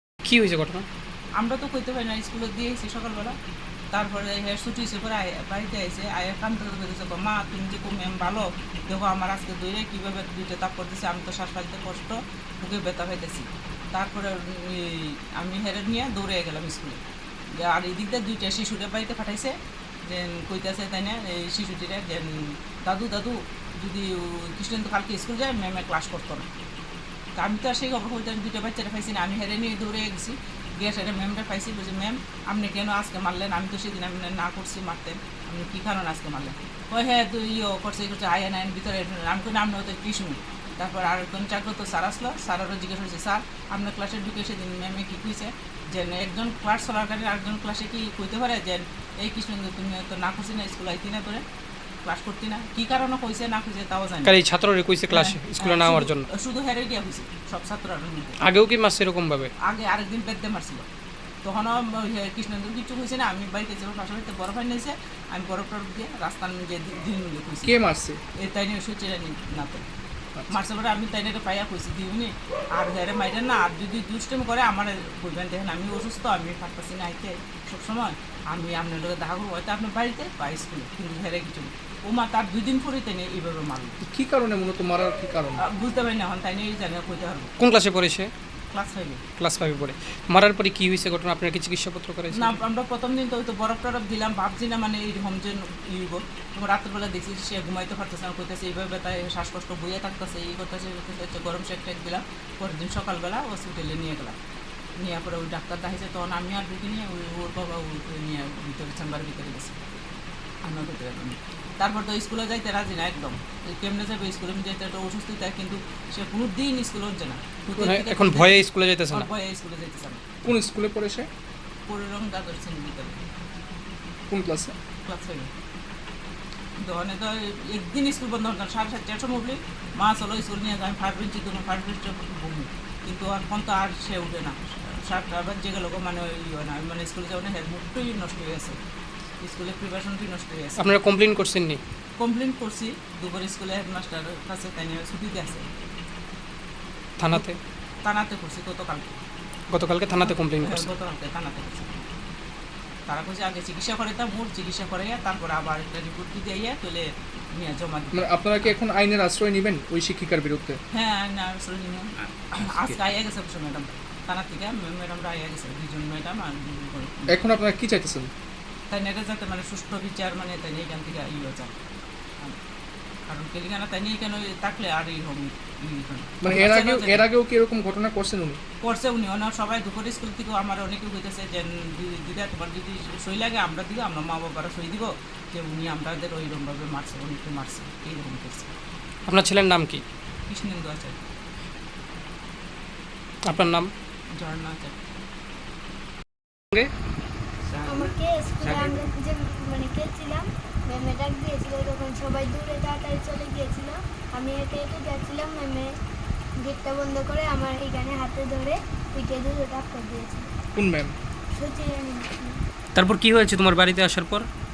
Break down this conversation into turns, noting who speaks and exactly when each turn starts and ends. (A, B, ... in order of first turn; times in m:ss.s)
0:00.2-0:00.8 A
0:01.4-0:03.3 B
0:03.9-0:17.0 B
0:17.6-0:19.5 B
0:20.1-0:22.3 B
0:22.8-0:26.4 B
0:27.4-0:51.4 B
0:52.0-0:54.4 B
0:54.2-0:56.3 A
0:55.1-0:58.4 B
0:58.4-0:59.5 A
0:59.6-1:00.8 B
1:01.4-1:07.8 B
1:07.6-1:08.2 C
1:08.4-1:09.8 B
1:10.5-1:24.0 B
1:24.0-1:25.6 C
1:25.7-1:27.5 B
1:27.6-1:28.3 A
1:28.7-1:29.2 B
1:29.4-1:32.6 A
1:32.3-1:44.3 B
1:45.0-1:49.8 B
1:50.6-2:00.5 B
1:57.8-1:59.3 A
2:00.4-2:01.3 C
2:01.9-2:03.2 B
2:04.3-2:04.7 C
2:05.0-2:05.5 B
2:06.8-2:18.8 B
2:19.4-2:20.9 B
2:20.8-2:21.8 A
2:22.2-2:25.6 B
2:27.2-2:27.6 A
2:28.0-2:29.2 B
2:29.7-2:30.9 A
2:30.1-2:31.9 B
2:33.1-2:38.7 B
2:38.1-2:40.8 C
2:40.9-2:47.4 B
2:47.3-2:48.3 C
2:48.9-2:51.7 B
2:53.3-2:57.2 B
2:56.4-2:58.6 C
2:58.8-3:08.7 B
3:09.3-3:10.0 A
3:10.5-3:11.2 B
3:13.5-3:13.9 A
3:14.4-3:15.0 B
3:17.6-3:19.0 B
3:17.8-3:25.9 D
3:26.6-3:30.5 D
3:30.7-3:31.1 C
3:31.5-3:32.6 D
3:32.9-3:34.4 A